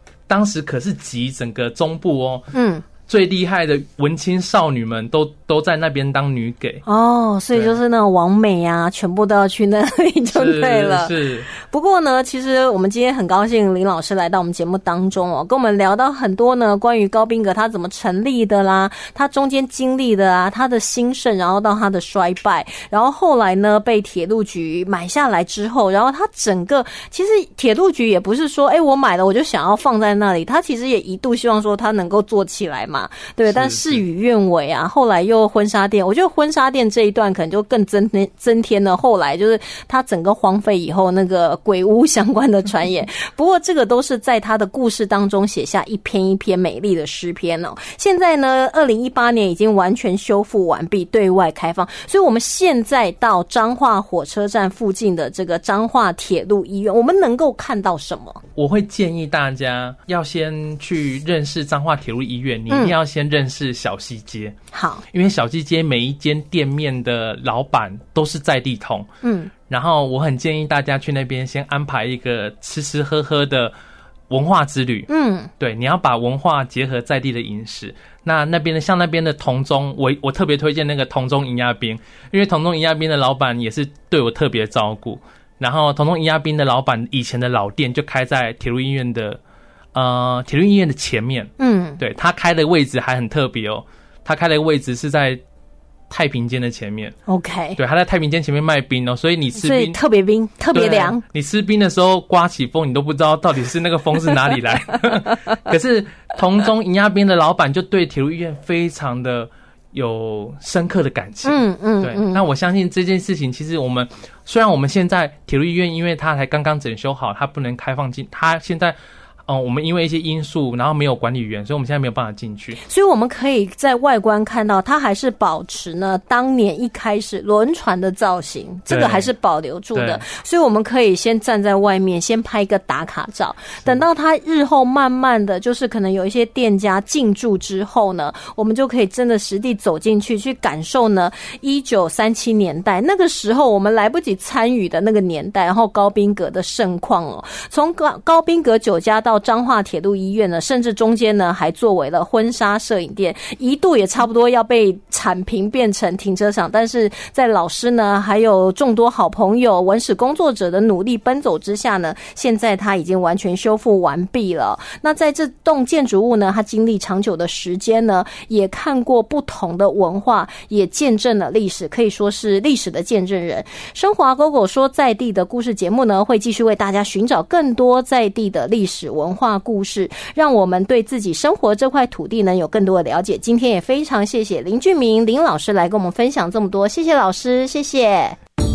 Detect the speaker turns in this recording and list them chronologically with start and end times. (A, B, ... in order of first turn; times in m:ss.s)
0:00.3-0:02.5 A
0:02.5-0:02.8 B
0:03.0-0:06.8 A
0:06.9-0:58.4 B
0:10.3-0:11.5 A
0:33.4-0:34.0 A
0:58.6-1:04.6 A
1:02.7-1:02.9 B
1:04.7-1:05.0 B
1:05.1-1:09.1 A
1:09.2-1:09.5 B
1:09.6-1:13.7 A
1:14.3-1:29.4 A
1:15.1-1:15.5 B
1:29.9-1:35.4 A
1:31.6-1:32.0 B
1:36.1-1:37.2 A
1:37.3-1:37.8 B
1:37.8-1:40.0 A
1:39.6-1:41.2 B
1:40.7-1:59.0 A
1:51.4-1:52.4 B
1:59.5-2:02.8 A
2:02.8-3:08.4 B
2:08.9-2:09.3 A
2:09.9-2:10.2 A